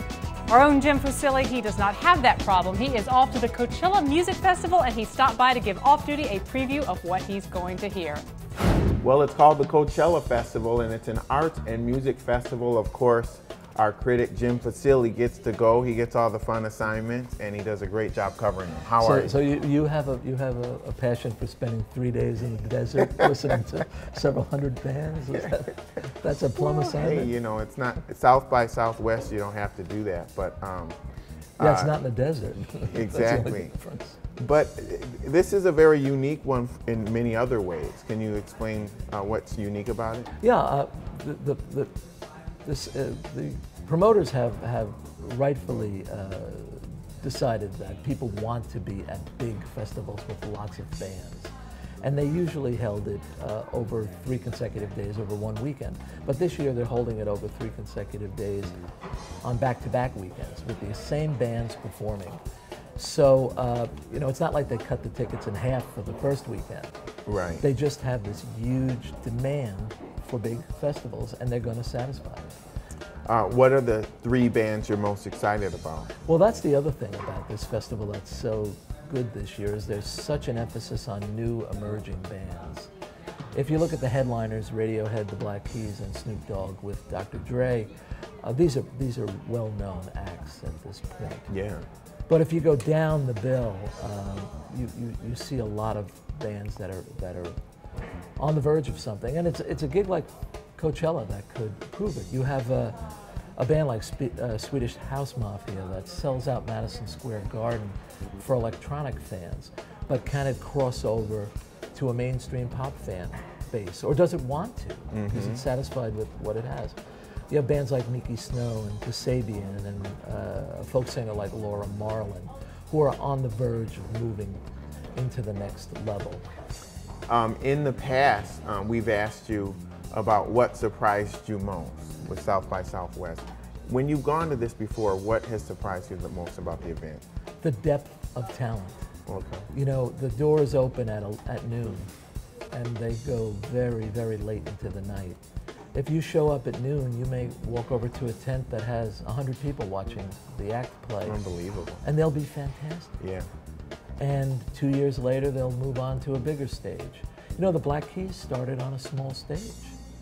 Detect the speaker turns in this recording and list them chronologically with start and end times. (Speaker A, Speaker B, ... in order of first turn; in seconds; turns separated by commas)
Speaker A: 0.5-8.2, Speaker B: 9.0-19.3, Speaker C: 19.0-27.3, Speaker B: 26.8-31.0, Speaker B: 31.6-31.9, Speaker C: 31.6-34.2, Speaker B: 32.9-33.7, Speaker B: 34.4-40.3, Speaker C: 40.4-41.9, Speaker C: 42.6-58.8, Speaker C: 59.4-62.4, Speaker C: 63.0-66.9, Speaker B: 67.3-67.6, Speaker C: 67.6-72.6, Speaker B: 73.2-76.1, Speaker C: 76.2-82.9, Speaker C: 83.5-87.9, Speaker C: 88.4-91.5, Speaker B: 91.5-91.8, Speaker C: 92.3-97.5, Speaker C: 98.4-103.0, Speaker C: 103.5-117.0, Speaker B: 115.1-115.6, Speaker C: 117.5-124.6, Speaker C: 125.1-126.4, Speaker B: 127.3-137.2, Speaker C: 137.6-139.0, Speaker B: 139.3-139.7, Speaker C: 139.7-142.1, Speaker C: 142.7-145.4, Speaker C: 145.9-151.4, Speaker B: 151.2-152.0, Speaker C: 152.0-153.1, Speaker B: 153.2-153.4, Speaker C: 154.2-159.9